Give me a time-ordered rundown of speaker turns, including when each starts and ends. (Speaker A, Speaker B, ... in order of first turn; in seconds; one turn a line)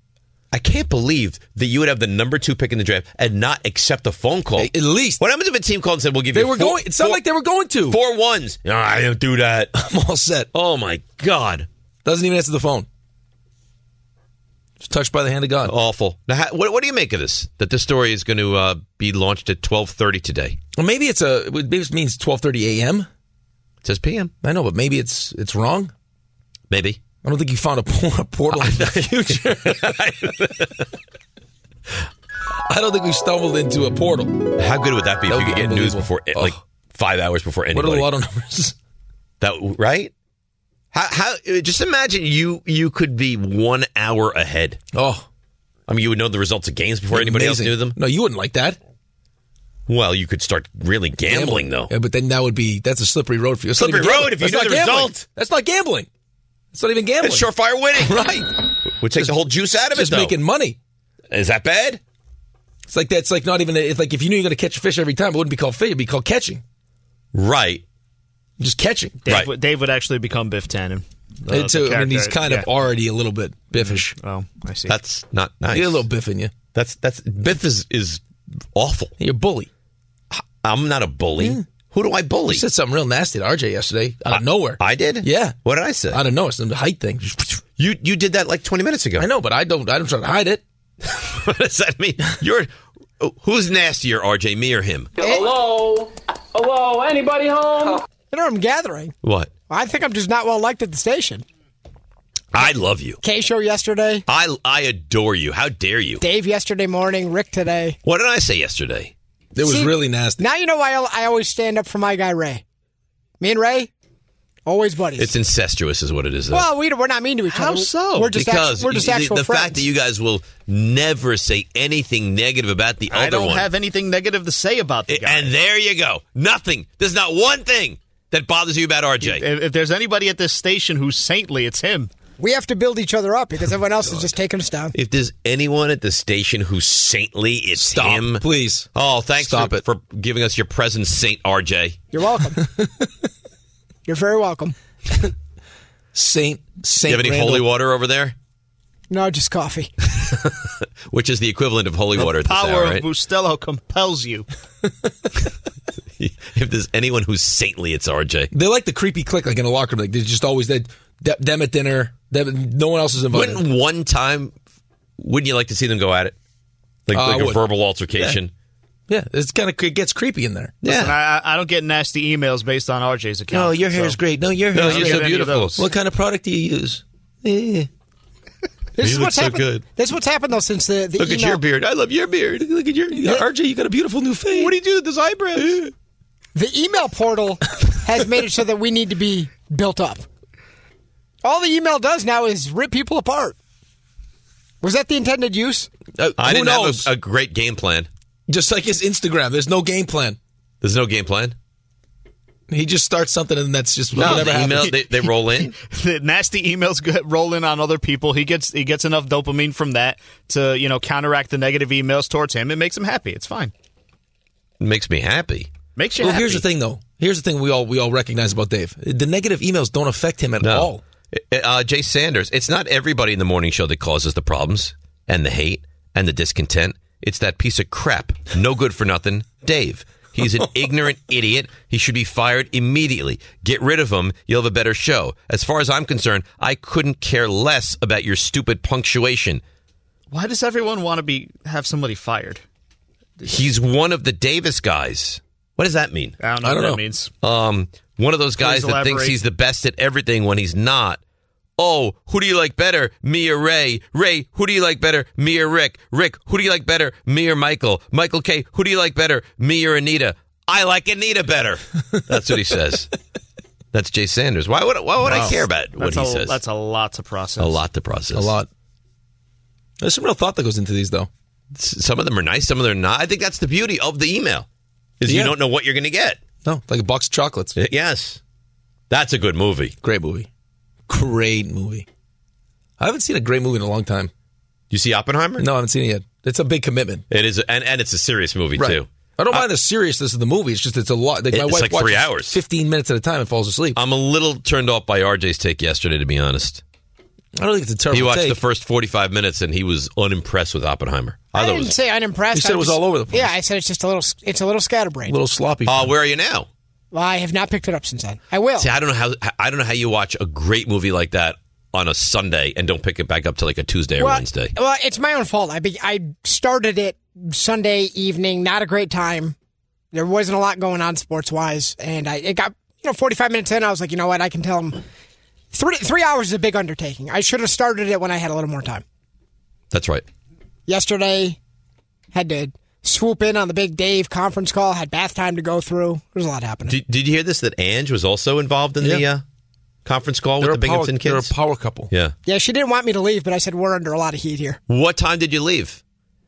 Speaker A: 0.5-7.2
Speaker B: 4.6-5.2
Speaker B: 6.3-8.0
Speaker A: 7.9-9.7
Speaker B: 9.7-10.5
Speaker A: 10.5-11.7
Speaker B: 12.1-12.9
Speaker B: 14.8-15.7
Speaker A: 15.7-20.6
Speaker B: 20.8-23.1
Speaker A: 23.8-24.3
Speaker B: 24.4-25.9
Speaker A: 26.7-27.0
Speaker B: 27.2-30.0
Speaker A: 28.6-30.9
Speaker B: 32.7-34.4
Speaker A: 34.6-38.1
Speaker B: 35.3-36.6
Speaker B: 37.7-38.8
Speaker A: 39.4-40.1
Speaker A: 40.9-44.8
Speaker B: 44.9-45.3
Speaker A: 45.9-48.0
Speaker B: 47.1-48.8
Speaker A: 49.9-51.9
Speaker B: 51.2-56.1
Speaker A: 53.8-55.2
Speaker B: 56.7-58.5
Speaker A: 57.2-58.4
Speaker A: 59.0-60.4
Speaker B: 59.9-60.8
Speaker A: 61.3-62.0
Speaker B: 62.9-66.6
Speaker A: 67.3-67.8
Speaker B: 68.6-69.2
Speaker C: 69.2-72.7
Speaker B: 71.5-74.2
Speaker C: 73.8-74.9
Speaker A: 74.9-76.1
Speaker B: 75.7-76.5
Speaker A: 76.8-78.2
Speaker A: 78.8-79.1
Speaker B: 79.2-79.7
Speaker A: 80.3-82.6
Speaker B: 82.5-85.6
Speaker A: 84.3-86.2
Speaker B: 86.1-87.6
Speaker A: 87.8-89.3
Speaker B: 89.2-90.6
Speaker A: 91.0-95.2
Speaker D: 98.3-99.1
Speaker A: 99.2-99.5
Speaker D: 99.7-101.4
Speaker A: 102.5-103.2
Speaker D: 103.2-104.2
Speaker A: 104.3-106.2
Speaker D: 106.2-108.0
Speaker A: 108.0-109.1
Speaker B: 109.5-110.4
Speaker D: 109.6-112.6
Speaker D: 113.4-113.9
Speaker D: 114.7-115.3
Speaker A: 115.2-116.7
Speaker D: 116.5-119.8
Speaker A: 117.5-123.7
Speaker C: 123.1-125.5
Speaker A: 125.1-129.5
Speaker C: 129.2-132.1
Speaker D: 132.4-134.9
Speaker A: 134.9-142.0
Speaker B: 137.8-139.8
Speaker D: 142.1-142.6
Speaker B: 142.8-143.1
Speaker D: 144.1-144.8
Speaker B: 146.1-147.7
Speaker A: 147.1-148.3
Speaker D: 149.1-149.9
Speaker A: 150.2-153.1
Speaker C: 152.2-154.5
Speaker A: 156.2-158.5
Speaker B: 158.5-163.6
Speaker A: 163.3-164.5
Speaker A: 165.2-166.4
Speaker A: 167.1-168.5
Speaker B: 167.1-167.6
Speaker B: 169.1-170.8
Speaker A: 170.8-171.2
Speaker C: 170.9-174.2
Speaker B: 173.5-177.9
Speaker A: 174.7-175.8
Speaker C: 174.9-175.8
Speaker D: 179.0-181.6
Speaker A: 179.0-179.8
Speaker A: 181.2-183.2
Speaker B: 183.0-184.8
Speaker A: 184.5-185.9
Speaker D: 186.6-190.3
Speaker D: 191.4-193.6
Speaker D: 194.8-195.9
Speaker B: 196.2-197.1
Speaker A: 196.4-198.1
Speaker B: 198.5-200.4
Speaker A: 200.8-201.6
Speaker B: 202.7-205.0
Speaker A: 204.2-205.8
Speaker C: 204.2-213.7
Speaker A: 214.8-215.7
Speaker C: 216.0-216.7
Speaker B: 216.2-221.0
Speaker A: 220.6-239.6
Speaker C: 240.3-242.6
Speaker A: 243.4-246.4
Speaker C: 246.4-247.3
Speaker B: 246.6-247.0
Speaker A: 247.4-251.2
Speaker C: 248.6-249.4
Speaker A: 251.8-263.1
Speaker A: 263.9-266.6
Speaker B: 265.2-265.6
Speaker C: 266.0-267.8
Speaker A: 267.6-268.5
Speaker B: 268.3-268.7
Speaker B: 270.0-271.3
Speaker A: 271.7-274.7
Speaker A: 275.2-276.4
Speaker B: 275.3-275.6
Speaker B: 276.6-277.8
Speaker A: 277.8-278.4
Speaker A: 279.1-279.9
Speaker B: 280.0-280.5
Speaker B: 281.1-282.1
Speaker B: 283.0-284.3
Speaker A: 284.9-285.6
Speaker B: 285.6-287.2
Speaker A: 287.3-289.7
Speaker B: 288.8-294.0
Speaker A: 291.5-292.6
Speaker A: 294.0-296.8
Speaker B: 297.6-298.6
Speaker A: 298.1-301.9
Speaker D: 301.5-305.4
Speaker B: 302.5-303.5
Speaker B: 305.3-306.1
Speaker A: 305.9-306.7
Speaker D: 307.1-308.9
Speaker A: 308.8-314.7
Speaker D: 314.2-319.6
Speaker D: 320.1-325.0
Speaker D: 325.7-329.0
Speaker A: 329.9-330.3
Speaker D: 330.9-331.6
Speaker D: 332.3-337.0
Speaker A: 336.9-339.4
Speaker A: 340.1-341.5
Speaker B: 340.6-342.1
Speaker D: 342.5-344.8
Speaker A: 344.9-346.0